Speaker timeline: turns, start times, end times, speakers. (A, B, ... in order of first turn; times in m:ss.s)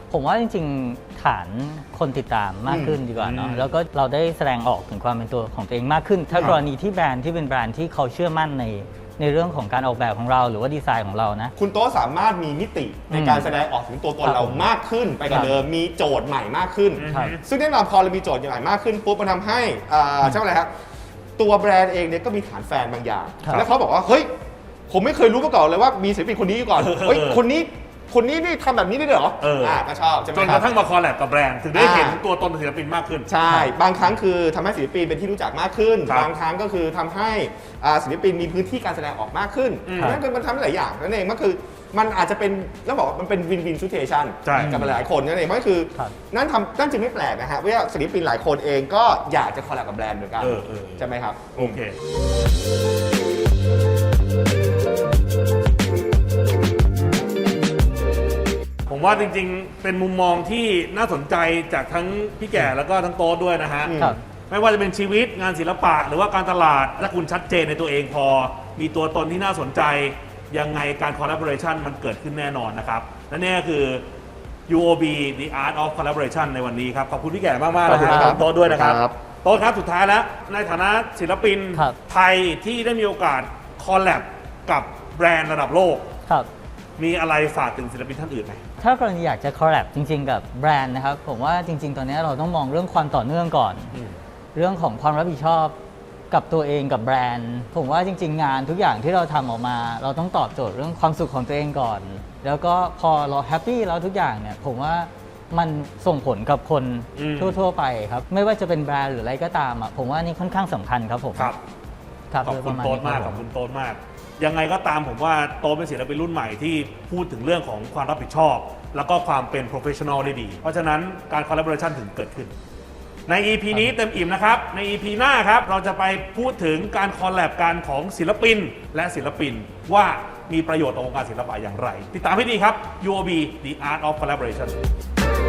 0:00.1-0:11.5 A
0:02.6-0:03.0 B
0:03.2-0:03.7 C
0:11.6-0:20.7 B
0:13.1-0:13.5 A
0:14.2-0:14.6 A
0:15.3-0:15.6 A
0:17.0-0:17.4 C
0:17.1-0:17.4 A
0:21.4-0:24.3 B
0:24.9-0:30.7 B
0:26.8-0:27.4 C
0:29.4-0:33.3 C
0:31.7-0:32.2 B
0:33.3-0:51.8 B
0:33.4-0:33.7 A
0:39.8-0:40.2 C
0:44.4-0:45.0 C
0:44.6-0:44.9 A
0:50.4-0:52.0 C
0:58.9-1:14.0 C
1:03.8-1:04.2 B
1:04.0-1:04.2 A
1:14.7-1:26.1 C
1:17.8-1:19.2 B
1:17.9-1:18.4 A
1:27.0-1:28.6 C
1:28.8-1:34.0 A
1:33.9-1:34.2 C
1:34.5-1:35.8 A
1:36.3-1:51.5 A
1:47.1-1:47.6 C
1:51.4-1:51.6 C
1:52.3-1:53.4 A
1:52.4-2:02.5 C
2:03.3-2:14.8 C